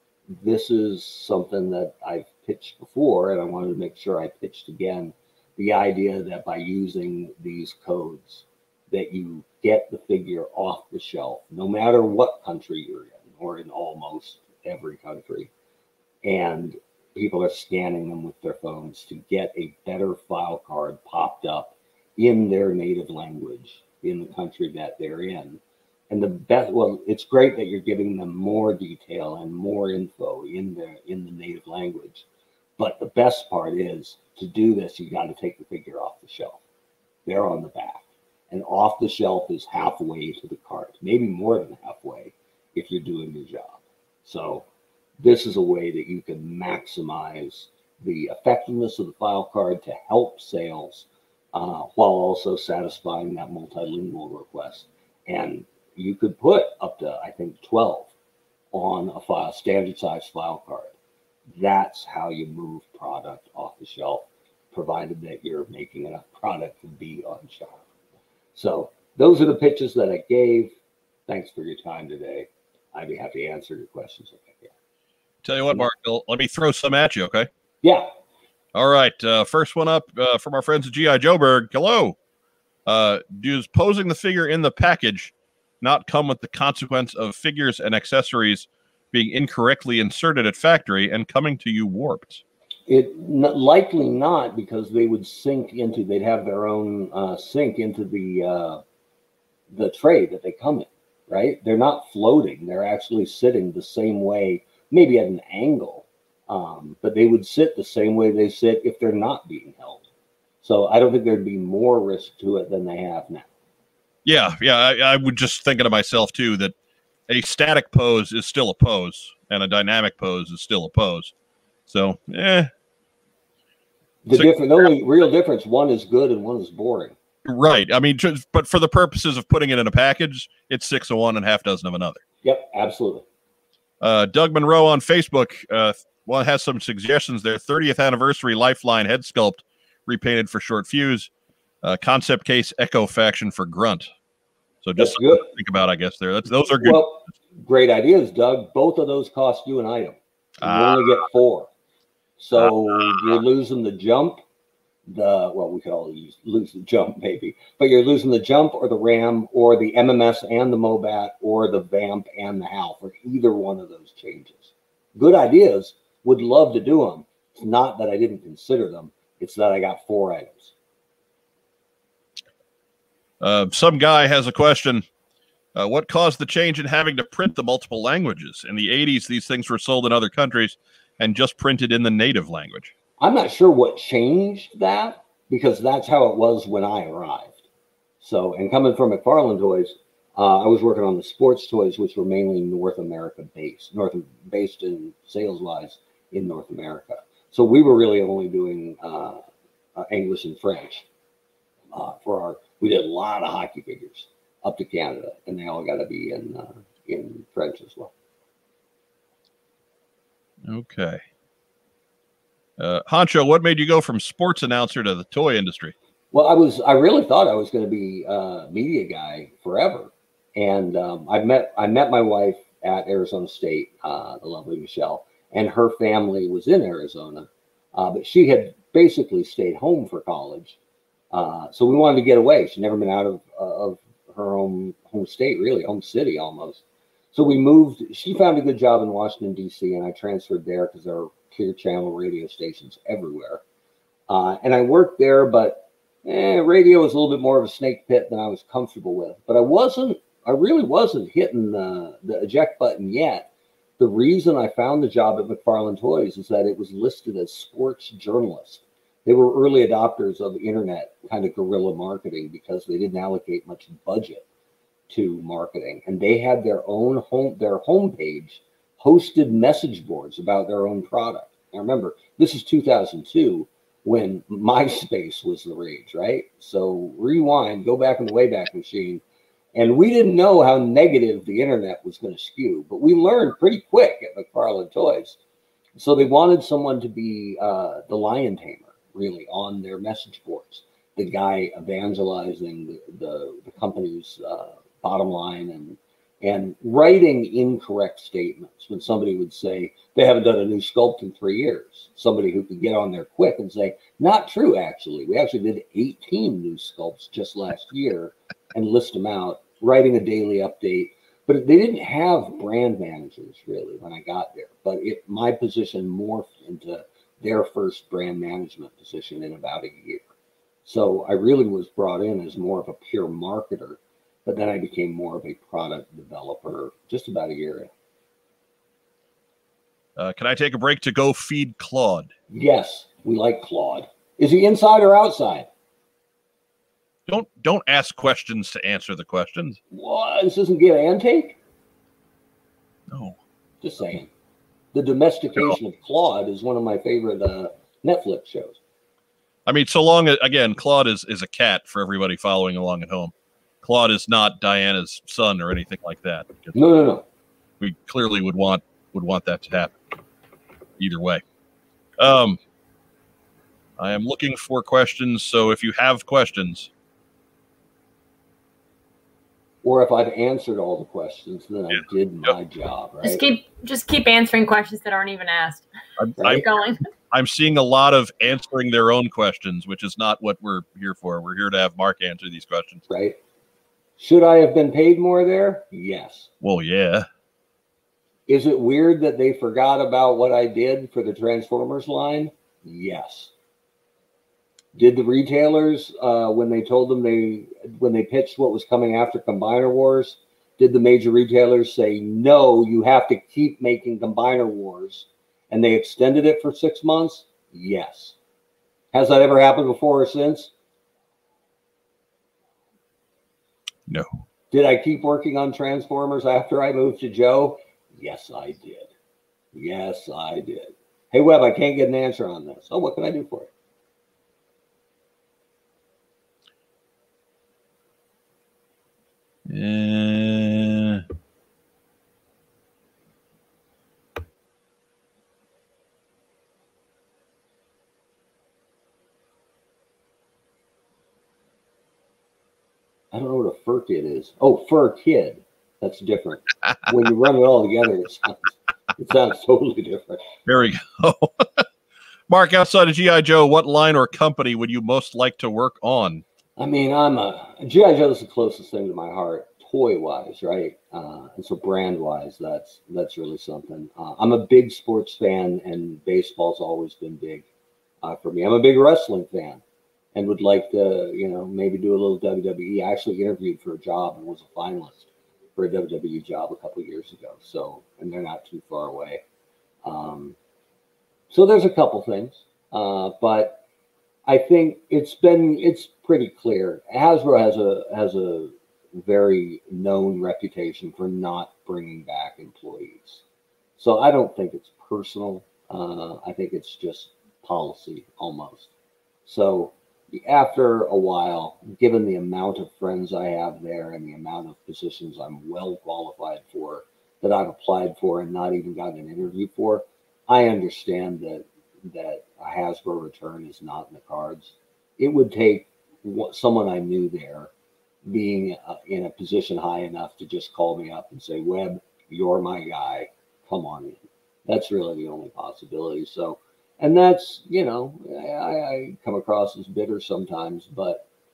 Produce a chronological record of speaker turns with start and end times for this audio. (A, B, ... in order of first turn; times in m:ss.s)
0:00.3-0:15.5 A
0:16.2-0:32.2 A
0:32.8-0:36.6 A
0:37.3-0:44.6 A
0:45.2-0:58.1 A
0:58.7-1:00.9 A
1:01.5-1:07.8 A
1:08.6-1:10.7 A
1:11.3-1:14.7 A
1:15.4-1:17.5 B
1:18.8-1:22.2 B
1:22.9-1:32.4 B
1:32.9-1:38.8 A
1:39.7-1:50.0 A
1:50.6-1:53.5 A
1:54.2-1:56.7 B
1:57.3-2:01.3 B
2:01.9-2:02.7 B
2:04.2-2:07.1 A
2:04.3-2:04.9 B
2:07.4-2:12.2 B
2:12.4-2:13.2 A
2:14.0-2:21.3 B
2:21.8-2:24.1 B
2:24.8-2:27.1 B
2:25.0-2:25.5 A
2:26.8-2:31.7 A
2:30.6-2:31.2 B
2:32.4-2:34.4 A
2:32.6-2:33.4 B
2:35.1-2:50.7 A
2:53.4-2:55.0 B
2:55.8-3:02.9 B
3:03.2-3:07.6 A
3:08.2-3:19.4 A
3:20.0-3:21.1 A
3:21.9-3:28.1 A
3:30.7-3:31.2 B
3:32.8-3:35.9 B
3:36.3-3:50.8 A
3:51.3-3:56.8 A
3:57.3-4:03.6 A
4:04.3-4:13.5 A
4:14.0-4:24.4 A
4:25.1-4:39.2 A
4:39.8-4:45.4 A
4:46.0-5:20.2 A
5:20.8-5:27.9 A
5:30.2-5:32.3 B
5:32.5-5:35.7 A
5:37.3-5:39.8 B
5:39.9-5:41.6 A
5:43.1-5:43.4 B
5:43.8-5:44.3 A
5:44.9-5:48.8 A
5:49.7-5:56.8 B
5:56.8-5:57.2 A
5:57.8-6:00.0 B
6:01.0-6:01.4 B
6:02.2-6:02.6 B
6:04.0-6:06.9 B
6:09.8-6:13.4 A
6:13.2-6:15.9 C
6:16.2-6:16.6 B
6:16.4-6:16.6 A
6:16.5-6:17.0 C
6:17.3-6:23.0 B
6:23.1-6:23.4 A
6:24.2-6:26.5 A
6:26.6-6:27.3 B
6:28.5-6:33.5 A
6:34.9-6:48.4 A
6:49.1-6:50.7 A
6:54.7-6:59.1 A
6:59.7-7:03.7 A
7:09.7-7:11.2 B
7:23.3-7:30.5 A
7:30.7-7:31.9 B
7:32.5-7:36.4 B
7:36.8-7:47.7 A
7:48.2-7:49.8 A
7:50.4-7:59.4 A
8:00.0-8:00.6 A
8:01.5-8:03.8 A
8:04.5-8:13.4 A
8:14.0-8:18.9 A
8:19.4-8:37.7 A
8:38.3-8:51.2 A